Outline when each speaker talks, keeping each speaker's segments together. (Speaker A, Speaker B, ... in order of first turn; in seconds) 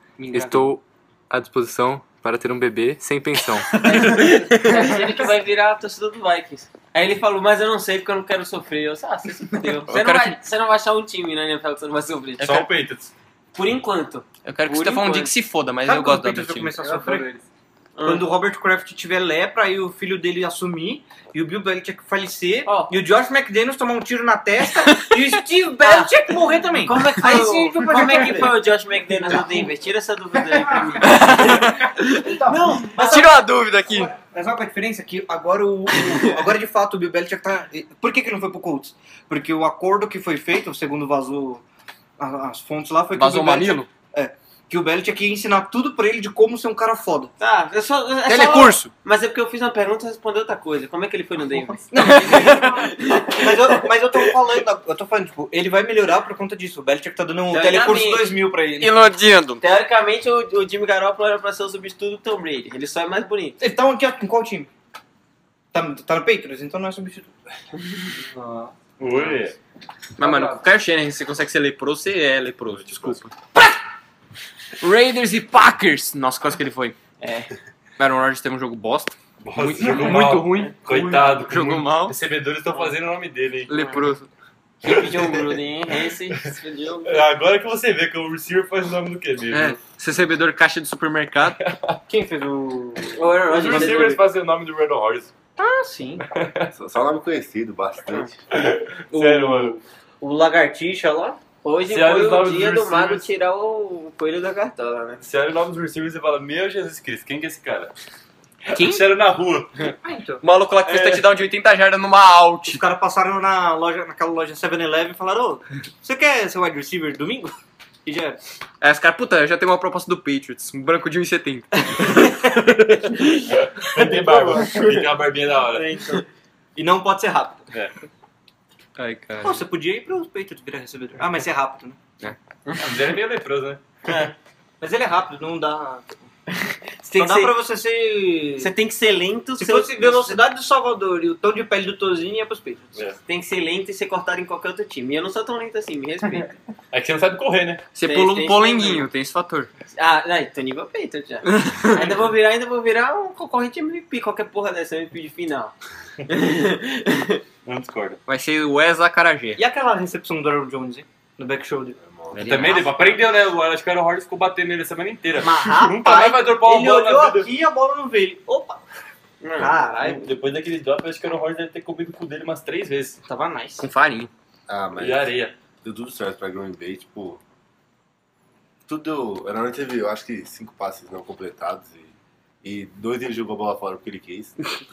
Speaker A: 0.2-0.6, 3.9-4.9, 9.9-10.4, 14.4-16.7, 24.8-25.2, 31.0-32.3, 32.9-34.1, 43.1-43.9, 48.2-48.9, 52.0-52.8, 58.8-59.6, 70.2-73.7, 74.8-77.0, 78.0-82.2, 83.7-84.3, 89.5-91.6, 108.7-109.0, 110.4-112.8, 118.8-122.1, 129.0-129.6, 147.9-149.7, 151.4-152.1, 158.3-159.6, 162.3-163.0, 173.8-174.3
Speaker B: 0.3-3.9, 16.8-17.2
Speaker C: 3.7-4.3, 12.4-13.1, 68.2-69.5, 70.2-70.6, 72.7-73.2, 79.4-83.7, 84.9-85.4, 87.0-89.8, 91.6-92.0, 93.4-95.3, 96.2-96.7, 98.5-99.8, 101.8-103.2, 105.2-107.9, 108.7-109.9, 110.8-111.2, 123.3-126.0, 132.8-134.3, 146.9-147.8, 157.7-158.2, 162.4-167.5, 169.9-173.2, 175.0-175.5
Speaker D: 3.9-12.7, 13.5-15.3, 17.9-18.3, 25.8-33.3, 47.4-54.3, 57.5-58.4, 59.6-63.6, 77.2-77.5, 84.8-87.2, 93.2-94.2, 101.6-105.2, 124.2-125.1, 125.7-126.2, 132.6-133.0, 137.0-137.6, 138.6-140.4, 143.2-146.5, 148.0-149.1, 149.9-155.7, 156.3-157.4, 169.4-169.7
Speaker E: 15.8-17.3, 18.0-29.7, 30.5-41.6, 42.2-47.3, 51.9-58.9, 63.6-64.7, 65.7-67.3, 92.1-94.1, 95.6-96.2, 99.1-101.4, 110.0-110.4, 112.7-118.4, 122.0-122.5, 126.8-127.7, 129.4-132.0, 134.8-136.2, 137.2-138.7, 139.6-143.0, 159.6-162.0, 162.8-163.2, 165.5-168.8, 169.6-170.3, 173.2-173.8
Speaker F: 96.7-98.3, 162.0-162.6, 174.7-177.4, 178.9-184.6